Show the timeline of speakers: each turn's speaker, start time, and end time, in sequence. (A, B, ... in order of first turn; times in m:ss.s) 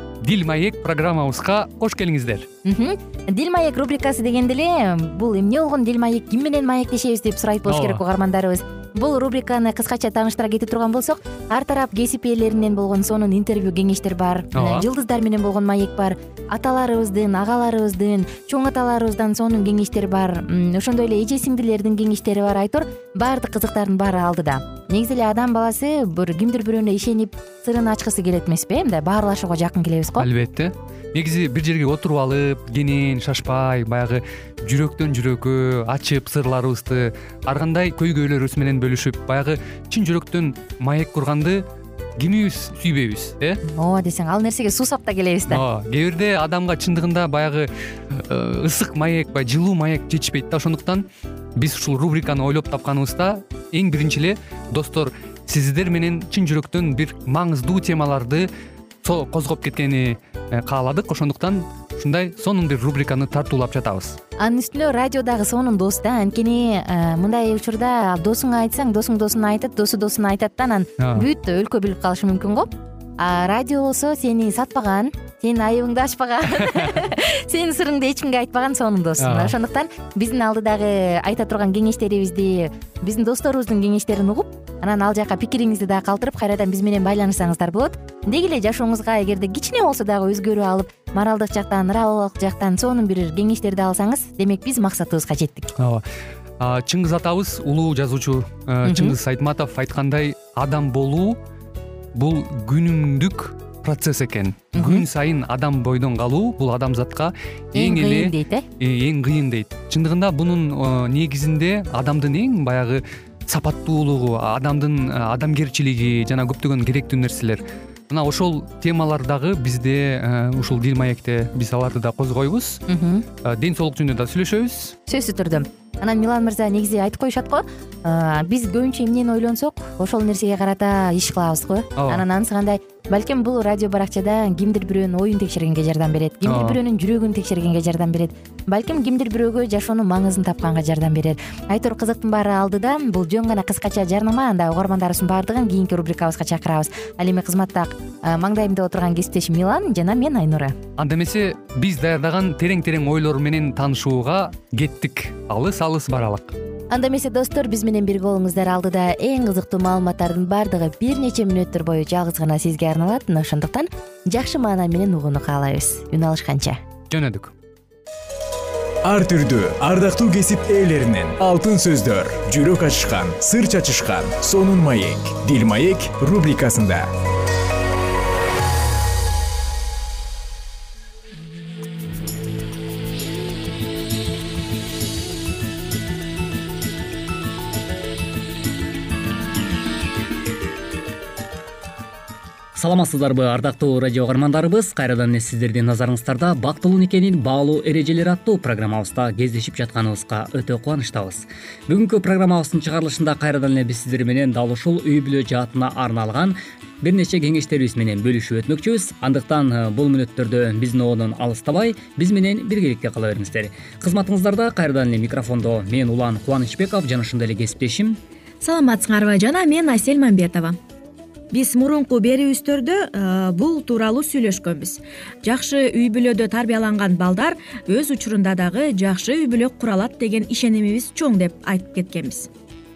0:00.2-0:02.5 A
0:02.6-0:30.3 B
0:07.6-0:08.0 A
0:14.5-0:14.9 A
0:30.2-0:41.6 A
0:42.2-0:43.6 A
0:43.6-0:45.6 B
0:45.5-0:58.5 A
0:59.0-1:04.2 A
1:04.4-1:35.7 B
1:11.0-1:11.3 A
1:19.2-1:19.5 A
1:35.8-1:36.0 A
1:36.6-1:41.4 A
1:38.8-1:39.1 B
1:42.1-2:02.8 A
1:44.7-1:45.0 B
1:47.7-1:48.6 B
2:02.9-2:03.2 B
2:03.4-2:05.0 A
2:05.1-2:30.8 B
2:12.0-2:12.2 A
2:16.4-2:16.8 A
2:31.0-2:36.6 A
2:36.9-2:46.8 B
2:47.1-2:47.5 A
2:49.0-2:57.1 C
3:12.8-3:38.2 D
3:38.6-3:40.8 E
3:41.5-3:52.5 E